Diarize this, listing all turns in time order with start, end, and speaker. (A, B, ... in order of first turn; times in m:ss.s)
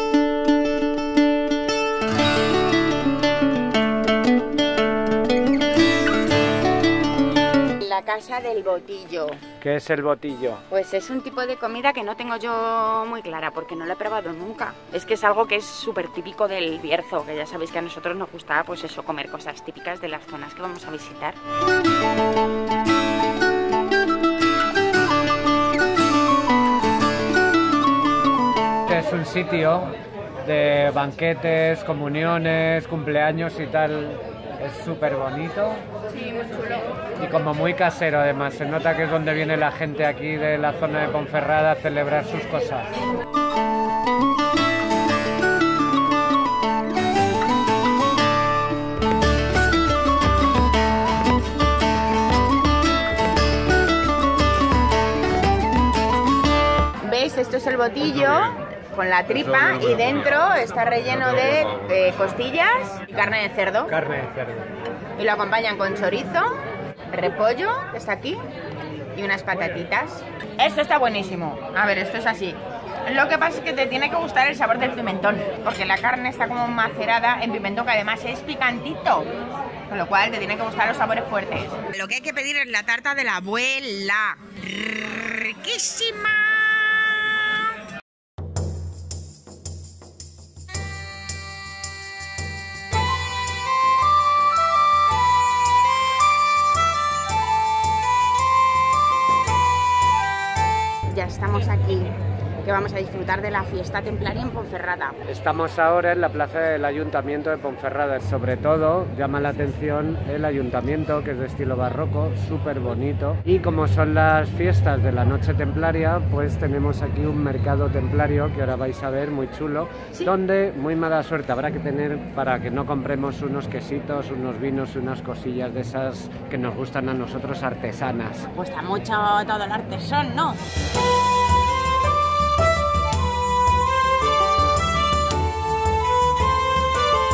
0:07.8-0:09.4 A
0:09.6-0:10.6 B
0:10.7-0:21.4 A
0:28.9-0:35.8 B
0:37.2-0:42.9 B
0:57.0-1:03.9 A
1:03.9-1:04.7 B
1:05.2-1:06.5 A
1:07.1-1:08.4 A
1:09.1-1:19.3 A
1:19.9-1:26.6 A
1:41.1-1:45.2 A
1:45.3-2:08.5 B
2:08.5-2:10.6 A